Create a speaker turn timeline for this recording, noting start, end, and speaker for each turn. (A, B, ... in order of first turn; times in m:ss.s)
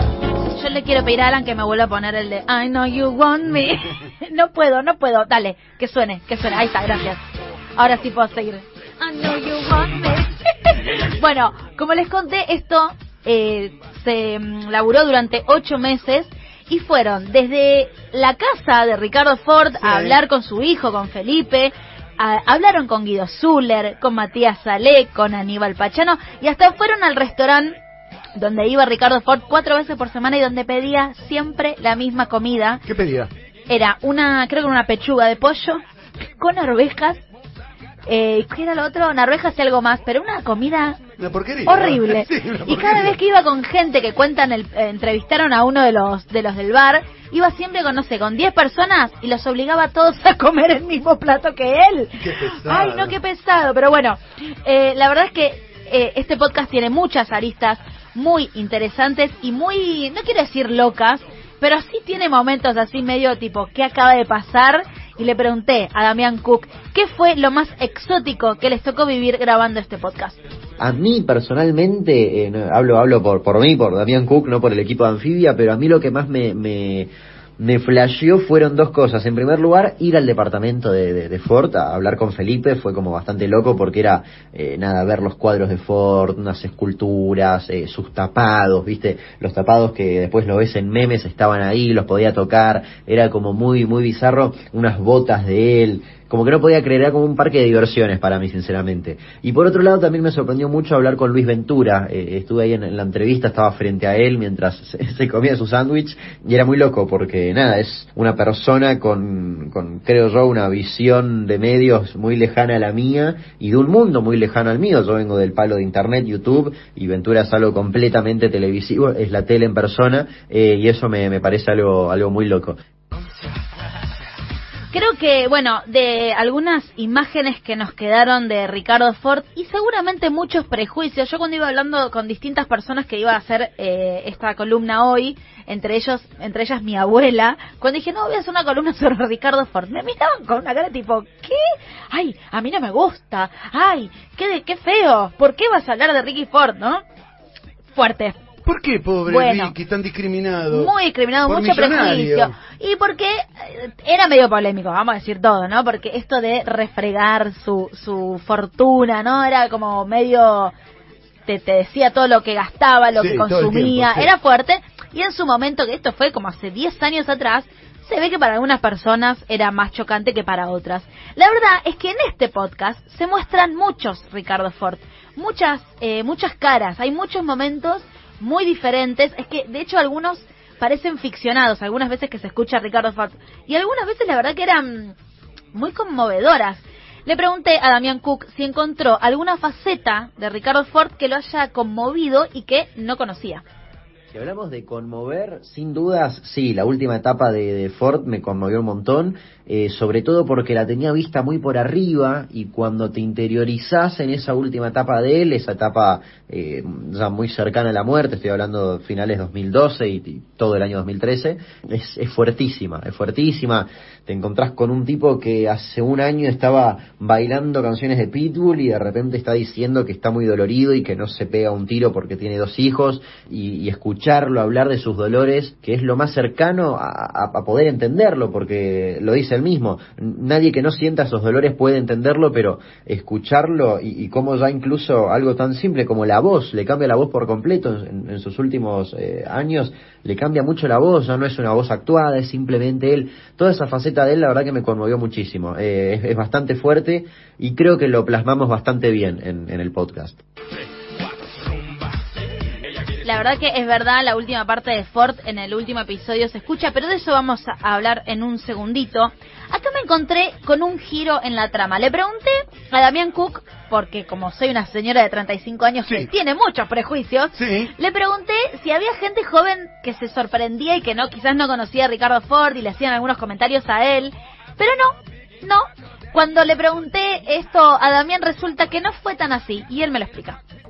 0:00.5-0:07.2 A
0:07.8-0:27.8 A
0:19.8-0:20.2 B
0:28.4-0:32.8 A
0:32.8-0:33.3 B
0:33.7-0:35.8 A
0:36.4-0:37.2 A
0:38.1-0:41.0 A
0:41.2-0:43.2 B
0:41.6-1:10.4 A
0:52.2-0:53.1 B
1:10.8-2:02.8 C
2:04.9-2:27.0 A
2:27.9-2:28.4 A
2:28.6-2:30.9 B
2:29.2-2:29.7 A
2:30.7-2:40.7 A
2:31.5-2:32.5 B
2:41.5-3:05.1 A
2:43.2-2:44.3 B
3:05.7-3:13.6 A
3:14.3-4:10.4 C
4:13.2-4:40.6 A
4:27.6-4:27.9 B